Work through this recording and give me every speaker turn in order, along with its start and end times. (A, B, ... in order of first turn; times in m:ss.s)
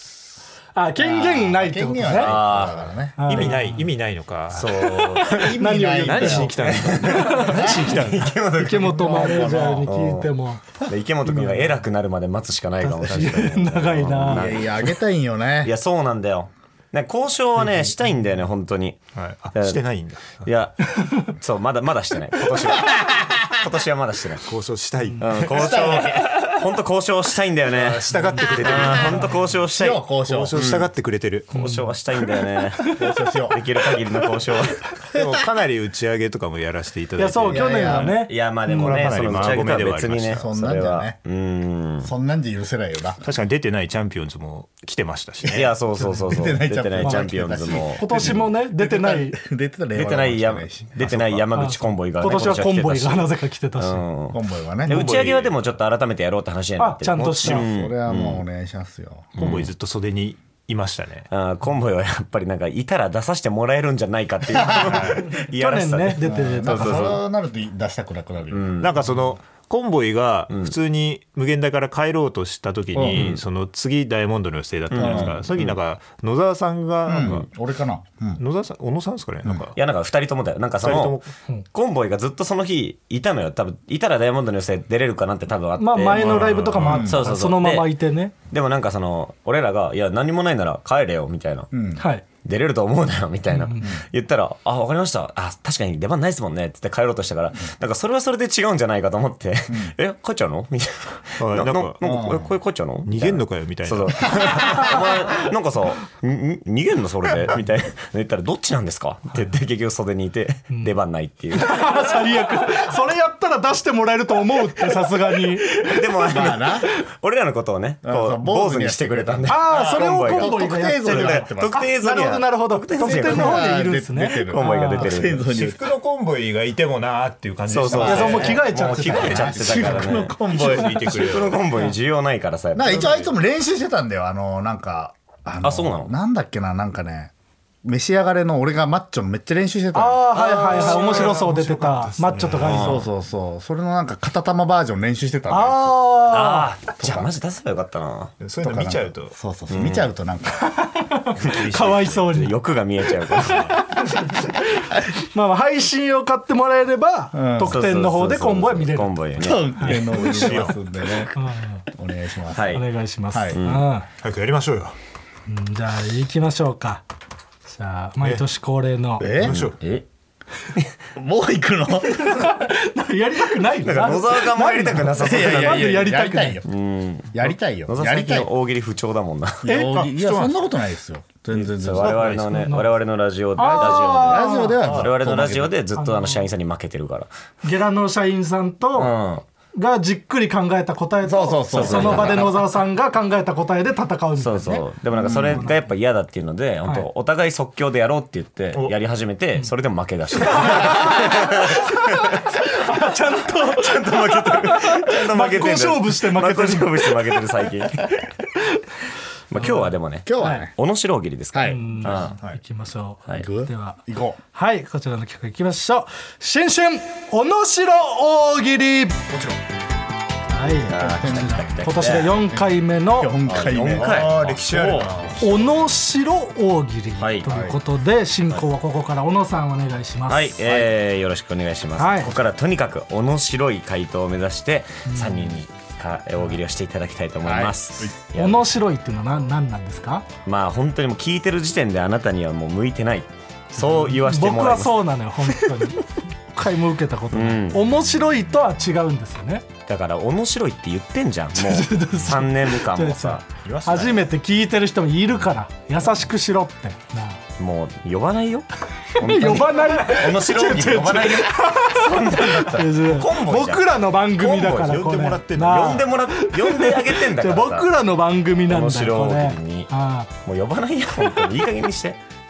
0:00.7-0:02.4 A
0:01.0-0:03.2 B
0:02.1-0:03.6 C
0:03.2-0:03.8 A
0:03.3-0:08.3 D
0:04.5-0:15.0 C
0:05.1-0:11.8 A
0:05.6-0:06.9 B
0:07.5-0:07.7 B
0:08.8-0:09.9 B
0:12.8-0:14.5 A
0:14.2-0:15.7 B
0:15.6-0:19.8 C
0:19.1-0:20.5 D
0:20.3-0:24.5 C
0:21.0-0:21.3 A
0:22.8-0:23.1 B
0:24.5-0:26.1 D
0:25.2-0:30.9 C
0:25.5-0:26.2 B
0:27.6-0:29.5 D
0:29.7-0:30.6 B
0:30.2-0:31.5 D
0:31.5-0:33.0 C
0:31.5-0:33.1 A
0:32.8-0:33.6 B
0:33.5-0:34.9 C
0:35.1-0:38.2 D
0:37.2-0:39.5 A
0:37.4-0:38.2 B
0:37.9-0:42.1 C
0:38.8-0:40.4 D
0:40.3-0:41.2 B
0:42.0-0:43.2 B
0:43.2-0:45.7 D
0:45.5-0:48.4 C
0:46.0-0:49.4 A
0:46.3-0:51.4 B
0:49.9-0:58.4 C
0:51.0-0:51.4 D
0:51.5-0:54.0 A
0:54.3-0:55.1 B
0:54.9-0:55.5 D
0:56.8-0:57.6 A
0:57.2-0:57.6 D
0:57.4-0:59.4 B
0:59.4-0:59.7 C
0:59.4-1:01.3 D
1:01.3-1:07.2 C
1:04.7-1:05.0 B
1:04.7-1:05.2 D
1:05.4-1:07.2 A
1:06.2-1:08.8 B
1:08.5-1:09.1 C
1:08.8-1:17.5 D
1:10.5-1:10.7 C
1:12.9-1:13.3 B
1:13.0-1:13.4 C
1:14.9-1:15.8 C
1:15.0-1:15.4 B
1:17.0-1:18.4 B
1:18.4-1:19.8 D
1:19.7-1:21.2 C
1:20.8-1:21.3 D
1:21.7-1:27.9 C
1:25.8-1:28.3 A
1:26.1-1:27.0 D
1:26.8-1:27.2 B
1:28.5-1:31.7 C
1:31.7-1:32.0 B
1:32.0-1:32.2 A
1:32.4-1:52.1 C
1:33.5-1:33.9 A
1:39.7-1:39.9 B
1:41.4-1:42.0 D
1:42.0-1:42.5 B
1:43.0-1:44.6 D
1:50.7-1:50.9 A
1:51.5-1:56.0 A
1:55.8-2:03.7 C
1:56.2-1:56.9 B
1:58.0-2:01.8 B
1:59.5-2:05.1 A
2:03.0-2:05.9 B
2:04.5-2:05.4 C
2:05.4-2:11.6 D
2:07.7-2:13.3 C
2:07.9-2:09.8 A
2:08.3-2:11.5 B
2:12.7-2:17.3 B
2:15.6-2:16.1 C
2:17.8-2:21.0 B
2:19.9-2:23.0 A
2:20.3-2:21.3 C
2:20.7-2:22.9 D
2:22.6-2:23.0 C
2:22.6-2:26.0 B
2:25.5-2:26.7 A
2:26.3-2:28.3 C
2:27.0-2:27.3 B
2:28.4-2:29.3 D
2:28.6-2:30.7 B
2:29.7-2:30.1 C
2:30.6-2:32.5 A
2:31.4-2:32.3 D
2:31.5-2:33.7 C
2:33.4-2:33.8 D
2:33.7-2:39.1 A
2:37.3-2:37.8 B
2:37.6-2:40.4 C
2:39.4-2:41.3 B
2:39.8-2:40.4 A
2:40.2-2:40.7 D
2:41.3-2:41.8 A
2:41.9-2:43.6 B
2:42.5-2:42.9 C
2:42.7-2:44.1 A
2:43.5-2:43.9 C
2:44.2-2:45.0 D
2:45.5-2:47.0 A
2:47.7-2:49.3 A
2:48.2-2:48.4 D
2:49.2-2:49.7 B
2:49.2-2:49.8 D
2:49.4-2:50.0 C
2:51.1-2:52.6 B
2:52.1-2:56.6 A
2:53.8-2:55.9 C
2:55.2-2:56.7 B
2:56.6-2:59.7 C
2:57.3-2:58.5 B
2:59.6-3:02.3 B
2:59.6-3:00.0 A
2:59.9-3:00.6 D
3:01.5-3:07.3 C
3:02.0-3:02.7 D
3:02.5-3:02.9 A
3:03.6-3:04.8 A
3:03.8-3:05.8 B
3:04.8-3:05.1 D
3:06.0-3:06.5 A
3:07.6-3:09.1 A
3:09.0-3:09.4 C
3:09.7-3:15.8 A
3:11.2-3:12.6 B
3:11.7-3:12.5 C
3:14.4-3:22.2 C
3:15.1-3:15.7 B
3:20.4-3:27.4 A
3:23.4-3:28.3 C
3:29.5-3:32.4 C
3:29.6-3:30.7 A
3:30.2-3:30.7 B
3:31.5-3:32.3 B
3:31.6-3:34.0 A
3:33.3-3:34.4 B
3:34.5-3:39.3 A
3:40.5-3:43.4 A
3:40.9-3:42.4 C
3:40.9-3:45.5 B
3:43.4-3:45.2 C
3:43.8-3:45.6 D
3:45.4-3:50.9 A
3:47.2-3:47.6 C
3:47.4-3:47.8 B
3:50.3-3:58.7 C
3:52.0-3:52.3 A
3:55.0-3:55.6 A
3:57.4-3:58.1 B
3:58.3-4:00.2 A
4:00.4-4:05.0 C
4:03.8-4:09.7 A
4:07.3-4:07.8 C
4:09.9-4:13.4 C
4:11.5-4:17.4 A
4:13.6-4:14.2 D
4:17.6-4:27.9 C
4:19.2-4:30.3 A
4:24.6-4:25.9 D
4:28.7-4:29.9 C
4:30.4-4:32.2 C